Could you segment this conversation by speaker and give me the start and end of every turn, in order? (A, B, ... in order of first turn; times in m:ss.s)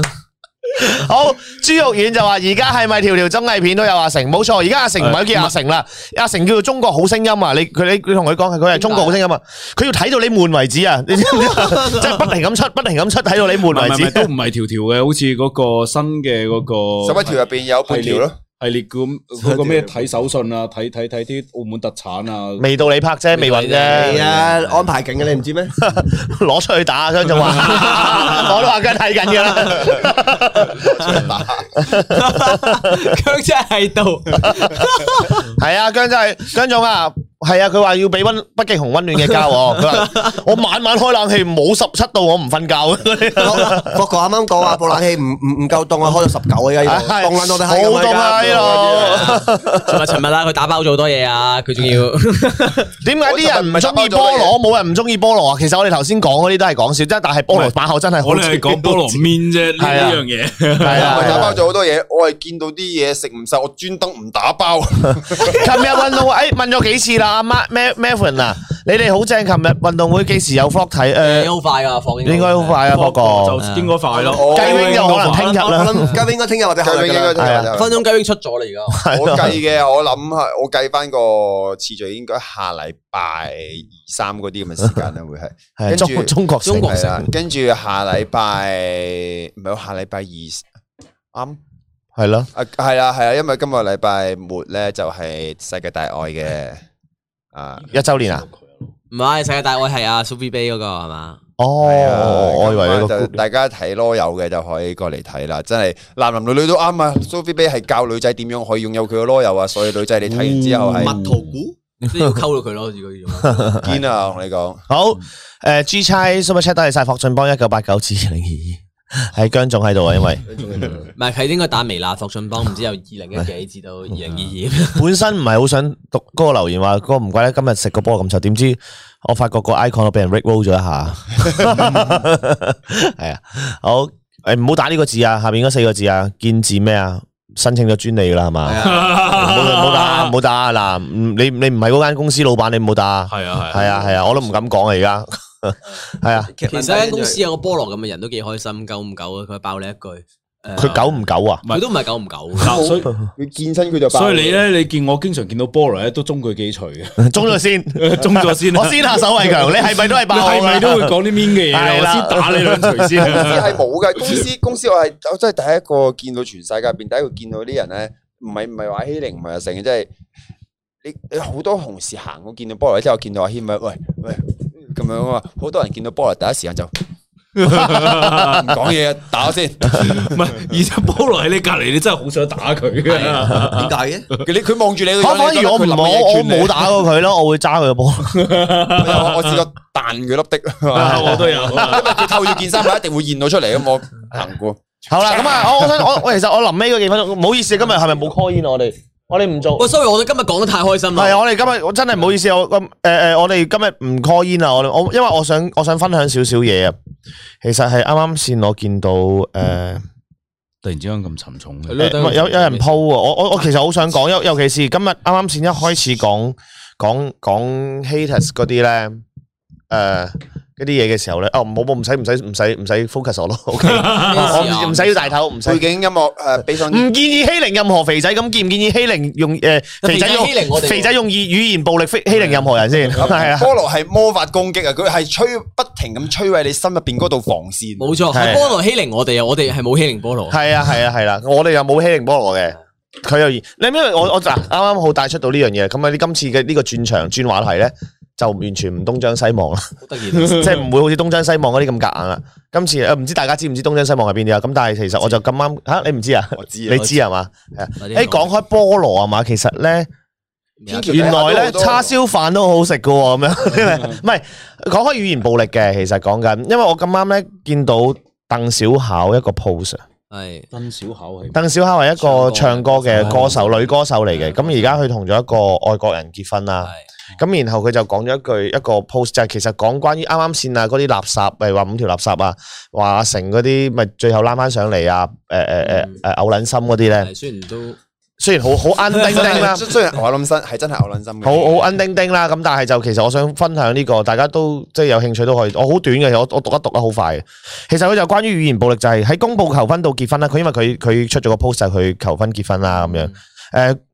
0:00.8-0:14.3 A
0:05.0-0:05.5 B
0:08.7-0:09.2 C
0:11.4-0:12.2 C
0:13.6-0:17.4 B
0:17.0-0:18.4 D
0:17.9-0:22.8 B
0:19.4-0:20.1 E
0:22.6-0:24.3 A
0:23.3-0:24.9 C
0:23.9-0:25.8 E
0:25.8-0:31.2 A
0:27.7-0:28.2 B
0:28.0-0:28.4 C
0:30.6-0:31.7 D
0:31.8-0:32.9 A
0:31.8-0:35.6 C
0:35.4-0:44.0 A
0:39.9-0:40.3 C
0:43.4-0:49.4 E
0:46.8-0:50.0 A
0:48.5-0:52.9 C
0:53.0-0:59.2 A
0:53.2-0:54.6 D
0:57.5-1:01.5 B
0:59.8-1:00.2 A
1:00.8-1:01.6 A
1:00.9-1:05.7 D
1:05.4-1:11.5 A
1:11.2-1:12.9 C
1:12.2-1:13.6 A
1:12.9-1:15.6 B
1:13.6-1:14.0 C
1:14.2-1:17.6 E
1:14.3-1:15.0 D
1:14.5-1:16.2 A
1:16.8-1:18.1 D
1:17.4-1:17.7 A
1:17.7-1:19.1 C
1:18.9-1:19.6 A
1:19.1-1:30.6 D
1:25.8-1:27.3 A
1:26.6-1:27.2 C
1:31.3-1:31.6 D
1:32.2-1:32.5 A
1:32.5-1:36.8 D
1:37.5-1:37.9 D
1:37.8-1:38.9 B
1:37.9-1:38.5 A
1:39.1-1:41.4 C
1:41.6-1:43.4 A
1:41.8-1:51.2 D
1:50.6-1:51.8 E
1:52.0-1:53.9 C
1:53.5-1:53.9 A
1:53.8-1:54.9 D
1:54.9-2:00.4 A
2:00.5-2:01.1 E
2:01.2-2:05.1 C
2:05.0-2:26.5 A
2:18.7-2:19.1 E
2:18.8-2:20.3 B
2:23.3-2:24.4 B
2:26.5-2:27.4 E
2:26.7-2:31.1 C
2:30.8-2:31.6 A
2:31.6-2:31.9 B
2:31.7-2:32.9 C
2:32.6-2:33.1 B
2:32.7-2:34.6 D
2:34.1-2:37.3 B
2:37.2-2:43.5 A
2:38.0-2:43.8 B
2:43.3-2:50.1 D
2:51.0-2:56.9 D
2:57.6-2:58.8 B
2:58.2-3:00.6 D
2:59.9-3:04.4 B
3:03.1-3:04.3 E
3:04.4-3:07.0 D
3:05.2-3:08.5 A
3:08.3-3:09.6 B
3:08.9-3:15.9 D
3:10.9-3:12.3 B
3:11.0-3:12.3 A
3:15.1-3:19.9 A
3:19.8-3:21.4 C
3:21.1-3:27.0 A
3:27.6-3:30.0 A
3:30.8-3:32.0 B
3:31.9-3:33.0 C
3:32.0-3:39.2 A
3:39.9-3:45.8 A
3:43.9-3:44.5 B
3:44.0-3:45.4 C
3:45.6-3:47.1 D
3:46.8-3:53.7 A
3:50.0-3:51.1 C
3:53.2-3:58.1 D
3:58.0-4:00.6 C
3:58.3-3:58.7 A
4:00.5-4:20.1 A
4:10.0-4:10.8 C
4:16.6-4:17.2 D
4:18.0-4:18.5 C
4:20.8-4:21.3 C
4:20.9-4:22.1 D
4:21.1-4:30.0 A
4:30.3-4:30.7 C
4:30.7-4:31.6 B
4:31.5-4:47.3 A
4:32.2-4:34.7 C
4:33.1-4:33.6 B
4:45.9-4:46.2 C
4:47.2-4:48.0 C
4:48.4-4:49.8 A
4:49.3-4:51.8 D
4:51.4-5:04.0 A
5:03.0-5:03.3 C